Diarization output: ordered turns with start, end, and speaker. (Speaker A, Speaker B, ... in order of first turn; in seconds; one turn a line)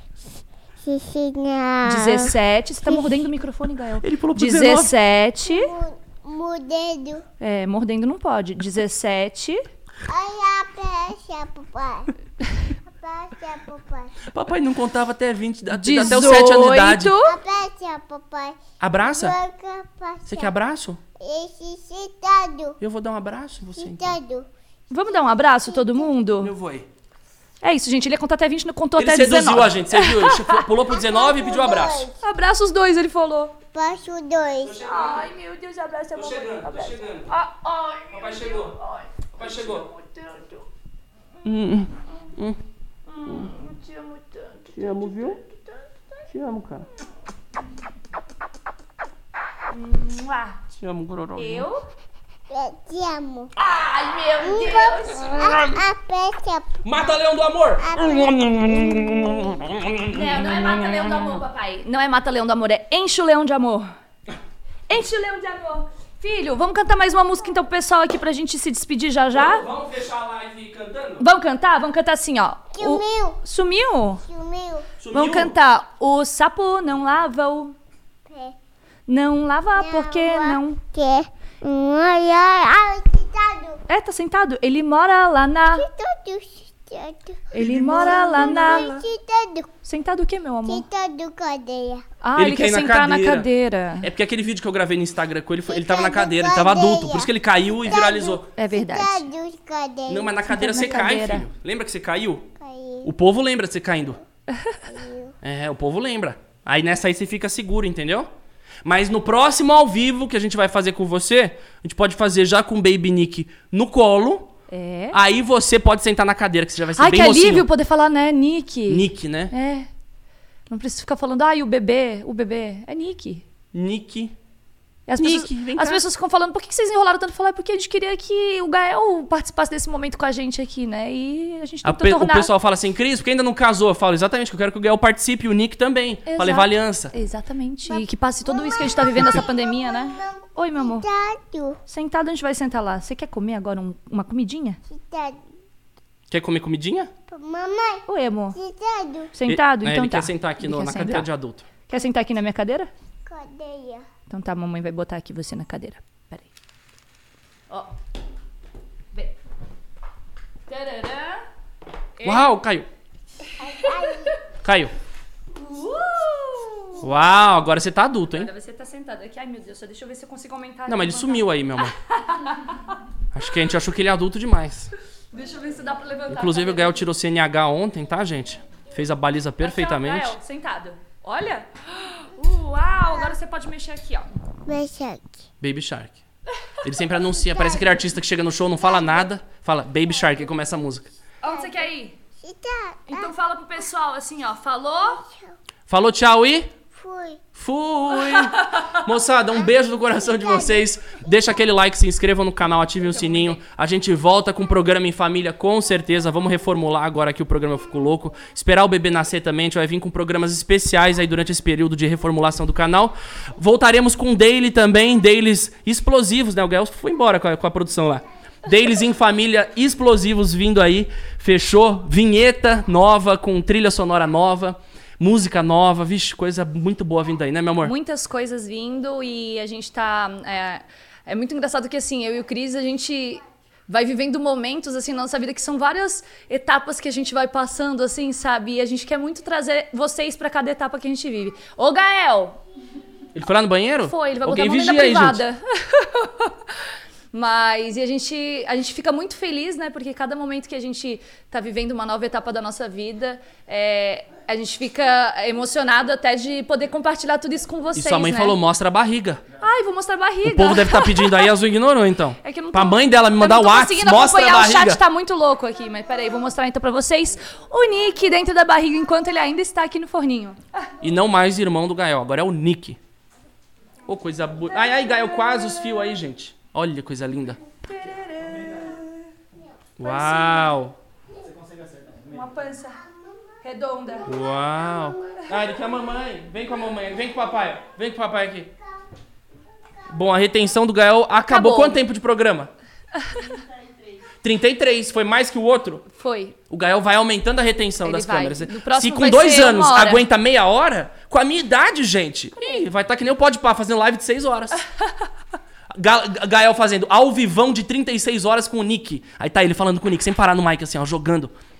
Speaker A: 0.8-2.4
Speaker B: 1.8-5.7
Speaker C: 4.0-4.9
Speaker A: 5.4-7.2
Speaker B: 7.4-9.6
Speaker A: 10.1-12.1
Speaker A: 12.9-14.1
Speaker C: 14.3-17.1
Speaker B: 15.7-17.4
Speaker A: 17.2-20.5
Speaker C: 18.8-19.4
Speaker C: 20.3-21.0
Speaker A: 21.2-22.8
Speaker C: 22.8-24.1
Speaker A: 23.8-26.1
Speaker B: 24.9-26.5
Speaker C: 26.4-26.9
Speaker B: 27.6-30.6
Speaker C: 29.0-32.1
Speaker A: 30.9-32.2
Speaker B: 32.2-33.6
Speaker A: 33.7-34.9
Speaker C: 34.6-35.3
Speaker B: 34.8-40.6
Speaker C: 36.1-37.3
Speaker C: 38.1-38.8
Speaker C: 39.4-39.9
Speaker C: 41.4-42.6
Speaker B: 43.1-46.2
Speaker C: 43.2-43.5
Speaker C: 44.8-45.4
Speaker C: 46.3-46.9
Speaker B: 49.7-50.6
Speaker C: 50.8-51.7
Speaker B: 51.4-51.8
Speaker A: 52.5-53.5
Speaker B: 53.6-55.6
Speaker A: 54.4-56.8
Speaker C: 55.3-55.8
Speaker C: 56.8-61.4
Speaker A: 57.8-59.8
Speaker B: 60.1-63.9
Speaker B: 64.9-69.6
Speaker C: 69.3-71.2
Speaker B: 71.2-74.2
Speaker A: 72.7-73.4
Speaker A: 74.2-74.9
Speaker C: 75.0-75.5
Speaker B: 75.1-77.7
Speaker A: 78.2-78.5
Speaker B: 79.1-80.8
Speaker A: 79.8-83.8
Speaker B: 83.9-85.9
Speaker A: 85.8-89.7
Speaker B: 87.5-89.0
Speaker C: 87.6-88.9
Speaker B: 89.8-90.8
Speaker A: 90.7-92.0
Speaker B: 92.2-94.1
Speaker C: 92.4-93.5
Speaker C: 94.0-98.4
Speaker A: 95.7-97.3
Speaker A: 97.9-100.5
Speaker B: 98.5-99.3
Speaker C: 100.1-102.5
Speaker B: 100.4-101.5
Speaker A: 102.6-103.1
Speaker C: 103.0-104.2
Speaker A: 104.9-105.3
Speaker C: 105.4-108.3
Speaker C: 108.8-114.5
Speaker B: 114.7-115.2
Speaker C: 115.1-117.7
Speaker B: 117.0-119.9
Speaker C: 118.9-119.5
Speaker B: 120.7-123.4
Speaker C: 123.7-124.3
Speaker B: 125.1-132.5
Speaker C: 125.2-126.0
Speaker C: 131.8-137.1
Speaker B: 136.2-141.1
Speaker A: 137.9-141.8
Speaker B: 141.9-144.8
Speaker A: 144.9-145.4
Speaker C: 146.3-147.1
Speaker A: 147.3-149.3
Speaker B: 148.1-148.6
Speaker B: 149.3-151.3
Speaker C: 149.5-151.7
Speaker B: 151.9-152.9
Speaker A: 153.2-154.1
Speaker B: 154.3-156.5
Speaker B: 160.7-161.4
Speaker B: 162.2-162.4
Speaker C: 162.2-162.9
Speaker A: 163.6-164.4
Speaker B: 163.7-164.4
Speaker C: 164.6-164.9
Speaker B: 165.6-167.1
Speaker C: 167.0-168.5
Speaker B: 168.4-172.8
Speaker C: 170.9-171.9
Speaker C: 173.3-174.9
Speaker B: 175.3-177.0
Speaker C: 176.3-180.4
Speaker B: 179.6-184.3
Speaker A: 183.0-183.3
Speaker A: 184.7-185.4
Speaker C: 185.6-186.2
Speaker C: 186.8-191.1
Speaker A: 187.3-188.1
Speaker A: 188.8-189.3
Speaker A: 190.2-190.5
Speaker B: 191.4-192.2
Speaker A: 191.4-191.9
Speaker A: 192.4-193.3
Speaker B: 193.1-195.2
Speaker A: 195.2-195.5
Speaker C: 195.9-196.7
Speaker A: 196.9-197.4
Speaker C: 197.5-227.9
Speaker B: 198.3-198.9
Speaker A: 200.1-200.9
Speaker B: 203.2-203.6
Speaker B: 227.8-242.6
Speaker C: 243.3-245.4
Speaker B: 244.0-246.7
Speaker B: 247.3-258.6
Speaker C: 257.9-259.4
Speaker B: 259.6-261.5
Speaker C: 260.4-265.0
Speaker B: 262.4-270.9
Speaker C: 271.0-273.0
Speaker C: 274.1-277.6
Speaker B: 277.9-279.3
Speaker C: 280.0-280.9
Speaker B: 280.0-280.8
Speaker B: 282.2-283.0
Speaker A: 283.0-283.6
Speaker B: 283.6-284.3
Speaker A: 284.2-285.4
Speaker C: 284.2-288.7
Speaker C: 290.1-292.7
Speaker B: 291.4-292.0
Speaker B: 293.2-293.6
Speaker C: 294.4-296.0
Speaker B: 296.1-296.6
Speaker C: 296.7-304.8
Speaker B: 298.0-300.2
Speaker C: 306.0-311.5